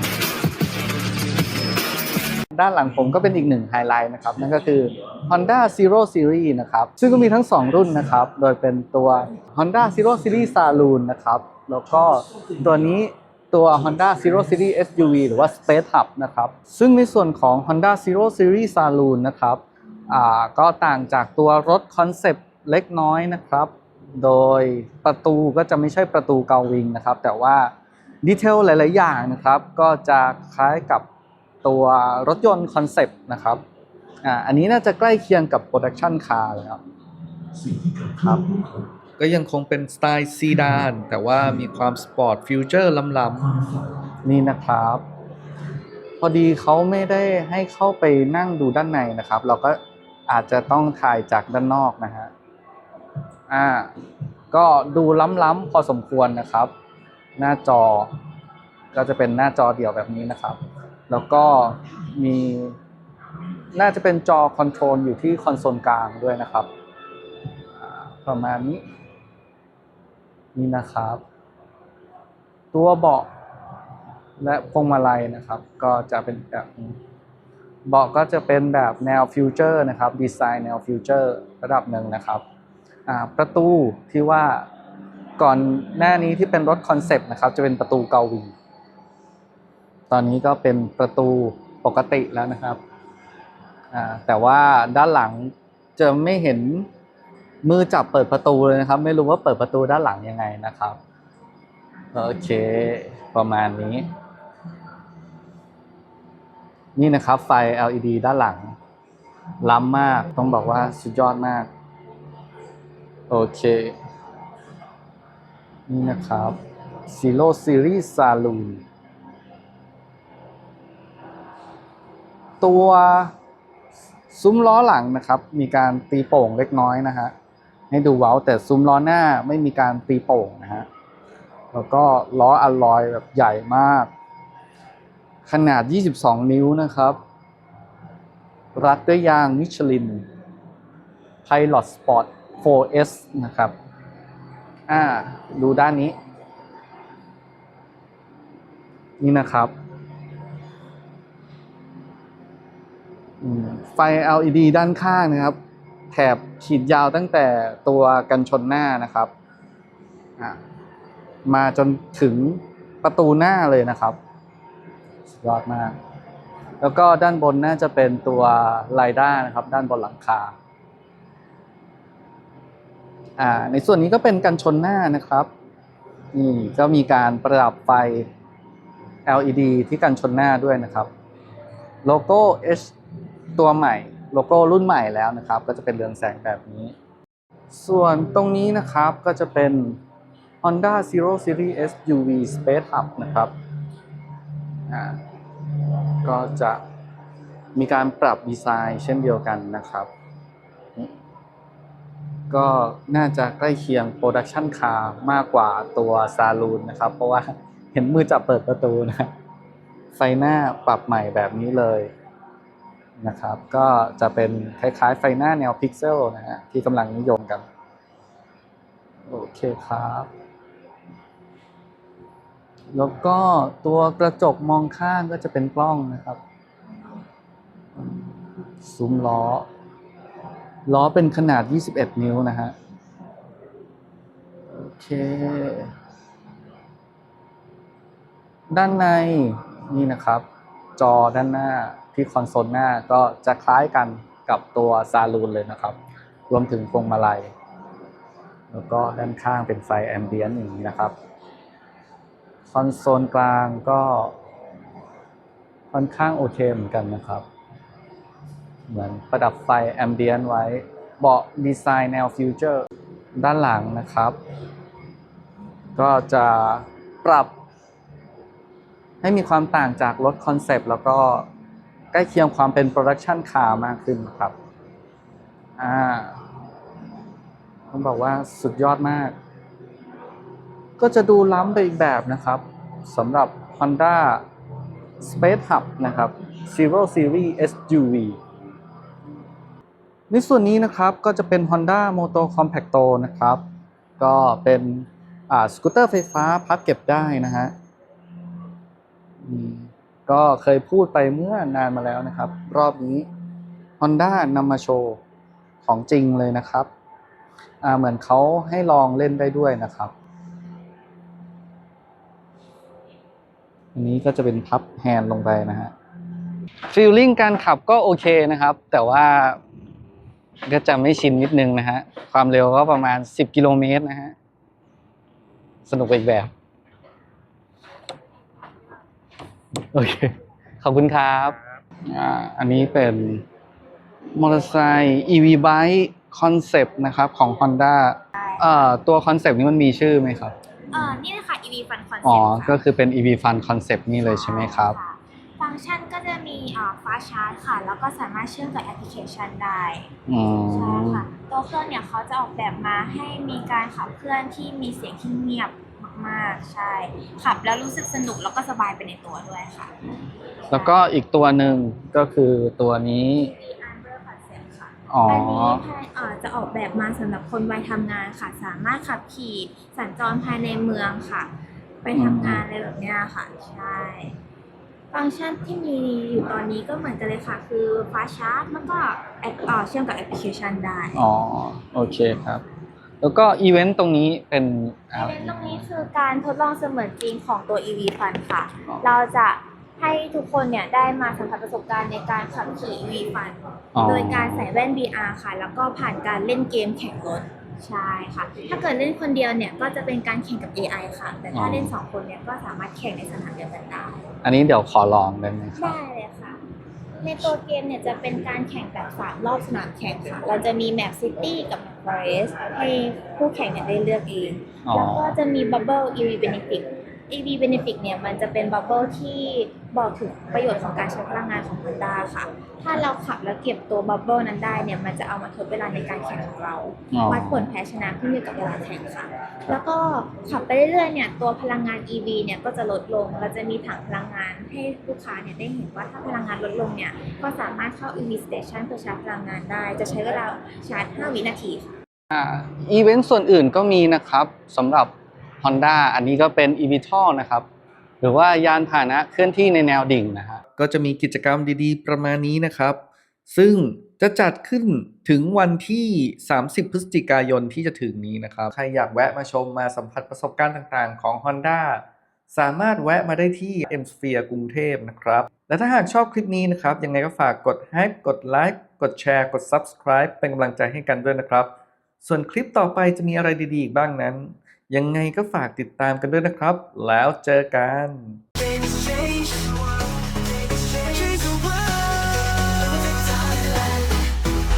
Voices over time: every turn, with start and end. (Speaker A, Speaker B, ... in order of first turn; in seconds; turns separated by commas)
Speaker A: 2.5-27.7, Speaker A: 28.2-31.1, Speaker A: 31.6-33.6, Speaker A: 34.2-36.8, Speaker A: 37.9-38.6, Speaker B: 39.2-43.5, Speaker A: 44.2-45.0, Speaker A: 46.2-52.3, Speaker A: 53.5-53.9, Speaker A: 54.5-56.7, Speaker A: 57.4-58.1, Speaker A: 58.9-62.8, Speaker A: 63.7-66.7, Speaker A: 67.8-68.8, Speaker A: 70.5-71.2, Speaker A: 72.7-73.3, Speaker A: 74.4-77.0, Speaker A: 77.9-82.4, Speaker A: 83.1-84.7, Speaker A: 85.4-88.5, Speaker A: 90.1-92.8, Speaker A: 93.9-96.9, Speaker A: 97.6-101.0, Speaker A: 102.1-104.1, Speaker A: 107.0-108.8, Speaker A: 109.6-111.7, Speaker A: 113.3-114.0, Speaker A: 115.9-118.8, Speaker A: 122.6-123.3, Speaker A: 124.3-127.3, Speaker A: 127.9-130.9, Speaker A: 131.7-134.1, Speaker A: 135.5-137.2, Speaker A: 138.8-140.3, Speaker A: 141.4-143.8, Speaker A: 144.9-146.2, Speaker A: 149.2-149.7, Speaker A: 153.4-155.6, Speaker A: 156.1-159.3, Speaker A: 161.5-164.2, Speaker A: 165.3-166.0, Speaker A: 166.8-170.5, Speaker A: 173.4-175.5, Speaker A: 176.3-178.3, Speaker A: 179.3-181.1, Speaker A: 182.0-182.9, Speaker A: 183.6-186.9, Speaker A: 187.7-190.0, Speaker A: 190.6-193.5, Speaker A: 194.9-195.2, Speaker A: 196.2-196.8, Speaker A: 197.8-200.1, Speaker A: 202.5-209.3, Speaker A: 210.1-212.1, Speaker A: 213.2-217.7, Speaker A: 219.3-220.3, Speaker A: 222.9-226.4, Speaker A: 228.8-229.7, Speaker A: 230.9-232.8, Speaker A: 234.7-235.9, Speaker A: 238.7-240.4, Speaker A: 241.0-246.0, Speaker A: 246.5-247.5, Speaker A: 248.7-251.1, Speaker A: 252.7-254.3, Speaker A: 255.9-257.5, Speaker A: 258.9-262.9, Speaker A: 263.4-264.4, Speaker A: 266.0-267.5, Speaker A: 269.2-271.5, Speaker A: 272.1-274.6, Speaker A: 275.8-276.4, Speaker A: 277.9-279.4, Speaker A: 281.0-284.4, Speaker A: 285.2-288.4, Speaker A: 290.3-293.6, Speaker A: 294.2-297.7, Speaker A: 299.4-303.3, Speaker A: 304.0-305.2, Speaker A: 305.8-306.9, Speaker A: 307.8-310.1, Speaker A: 313.9-315.9, Speaker A: 316.9-319.6, Speaker A: 320.7-324.4, Speaker A: 325.9-326.5, Speaker A: 329.9-333.4, Speaker A: 334.4-341.1, Speaker C: 338.3-338.9, Speaker C: 340.9-342.8, Speaker A: 342.2-345.0, Speaker C: 344.2-350.1, Speaker A: 350.3-351.3, Speaker C: 350.7-359.9, Speaker C: 360.7-360.9, Speaker A: 360.7-363.5, Speaker C: 363.4-371.5, Speaker A: 365.1-365.9, Speaker C: 372.0-374.4, Speaker A: 372.1-372.6, Speaker C: 375.1-381.2, Speaker A: 381.1-382.6, Speaker A: 383.2-386.0, Speaker C: 385.1-404.2, Speaker A: 393.9-394.7, Speaker A: 401.5-402.0, Speaker A: 404.4-406.0, Speaker C: 405.8-406.6, Speaker C: 407.2-442.0, Speaker A: 414.9-415.4, Speaker A: 427.1-427.7, Speaker A: 442.3-447.6, Speaker A: 448.2-450.6, Speaker B: 450.7-471.7, Speaker A: 456.3-460.5, Speaker A: 464.4-466.3, Speaker A: 467.8-469.0, Speaker B: 472.2-484.3